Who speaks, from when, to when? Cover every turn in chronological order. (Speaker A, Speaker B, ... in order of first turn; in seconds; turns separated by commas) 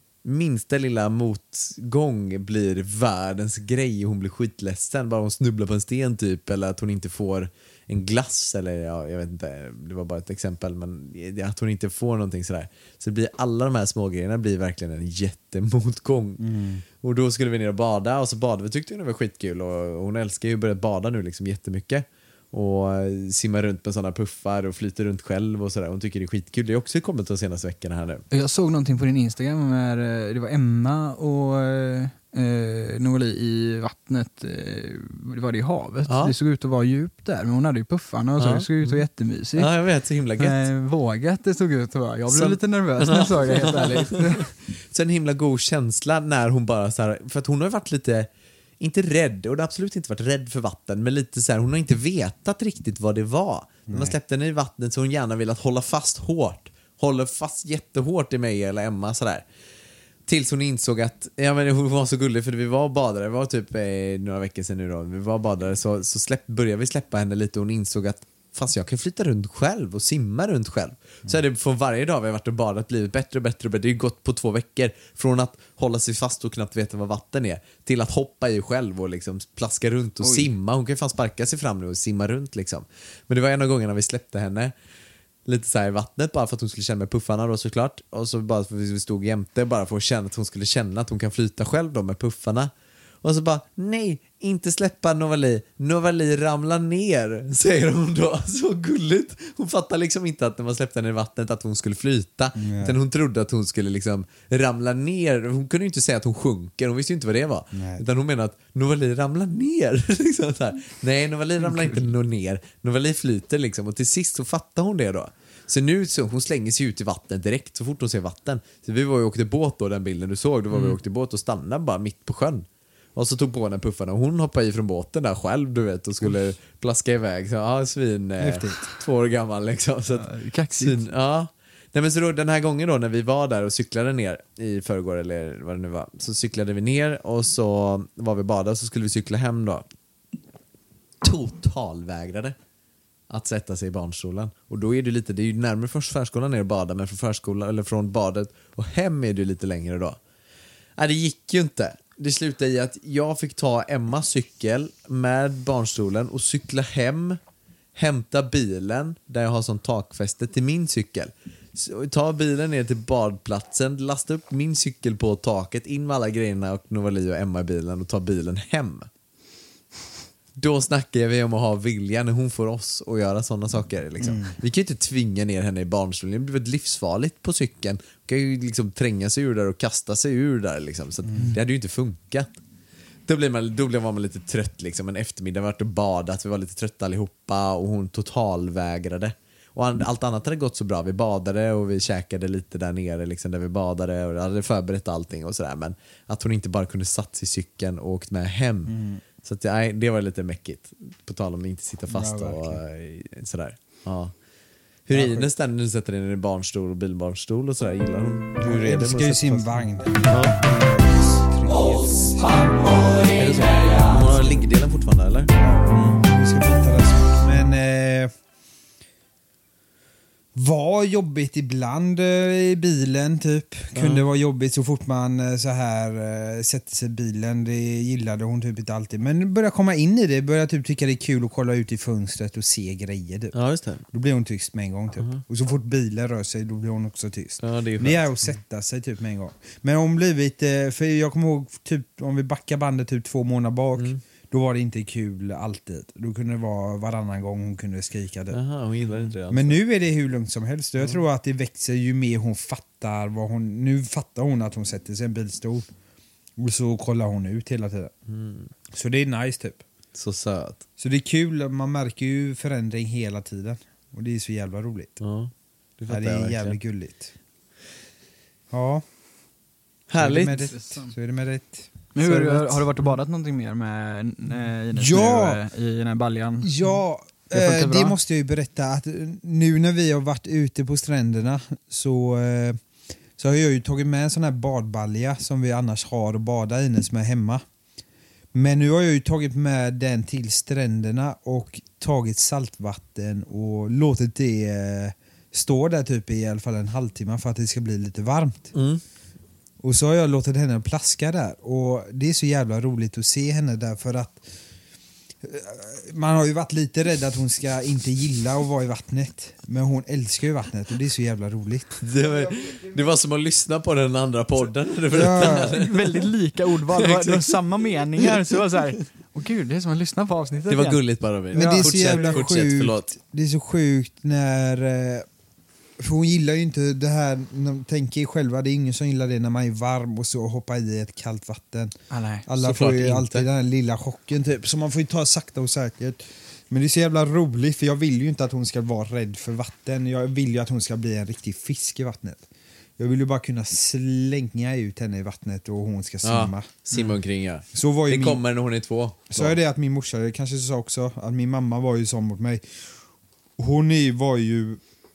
Speaker A: 0.2-16.5, Speaker B: 16.4-16.8, Speaker A: 17.0-28.2, Speaker C: 28.3-39.7, Speaker A: 36.1-36.3, Speaker A: 38.4-39.0, Speaker A: 39.6-40.6, Speaker C: 40.4-44.5, Speaker A: 42.3-48.3, Speaker A: 48.8-59.5, Speaker B: 53.9-54.2, Speaker A: 60.3-84.7, Speaker C: 80.2-80.5, Speaker A: 85.5-92.7, Speaker A: 93.2-139.9, Speaker B: 102.5-103.0, Speaker B: 107.7-108.0, Speaker C: 111.7-112.0, Speaker B: 128.4-128.8, Speaker C: 130.1-131.0, Speaker A: 141.2-142.6, Speaker A: 143.3-150.2, Speaker A: 151.0-157.4, Speaker A: 157.9-169.1, Speaker A: 170.6-182.5, Speaker B: 174.2-174.6, Speaker B: 181.3-181.6, Speaker A: 183.3-204.3, Speaker B: 198.9-199.2, Speaker B: 202.1-202.8, Speaker A: 205.1-209.7, Speaker B: 205.1-205.5, Speaker B: 208.6-212.9, Speaker A: 210.3-210.6, Speaker A: 213.3-215.5, Speaker B: 215.6-218.3, Speaker B: 220.6-233.5, Speaker A: 223.9-224.2, Speaker A: 233.5-234.0, Speaker B: 234.1-248.6, Speaker A: 235.2-235.4, Speaker A: 237.6-238.3, Speaker A: 248.5-249.8, Speaker B: 249.5-255.9, Speaker B: 256.6-258.1, Speaker A: 258.3-258.7, Speaker B: 258.9-259.8, Speaker A: 260.1-260.8, Speaker B: 261.0-265.1, Speaker A: 265.2-266.8, Speaker B: 266.1-267.3, Speaker B: 268.7-269.0, Speaker A: 270.1-270.8, Speaker B: 270.2-273.1, Speaker C: 270.5-271.1, Speaker C: 272.1-276.9, Speaker B: 274.9-275.6, Speaker B: 276.6-282.8, Speaker C: 277.5-278.2, Speaker B: 283.4-287.6, Speaker B: 288.5-298.7, Speaker A: 298.7-299.0, Speaker B: 299.8-304.4, Speaker B: 305.4-312.0, Speaker A: 312.0-316.3, Speaker B: 315.1-315.8, Speaker C: 315.4-321.0, Speaker A: 316.9-318.4, Speaker A: 320.7-323.1, Speaker B: 321.5-325.3, Speaker C: 321.6-322.2, Speaker B: 326.0-331.9, Speaker C: 332.1-332.5, Speaker B: 332.5-342.5, Speaker A: 332.6-333.5, Speaker B: 343.0-346.7, Speaker A: 346.2-349.6, Speaker B: 347.7-348.4, Speaker B: 349.3-353.0, Speaker B: 353.6-354.8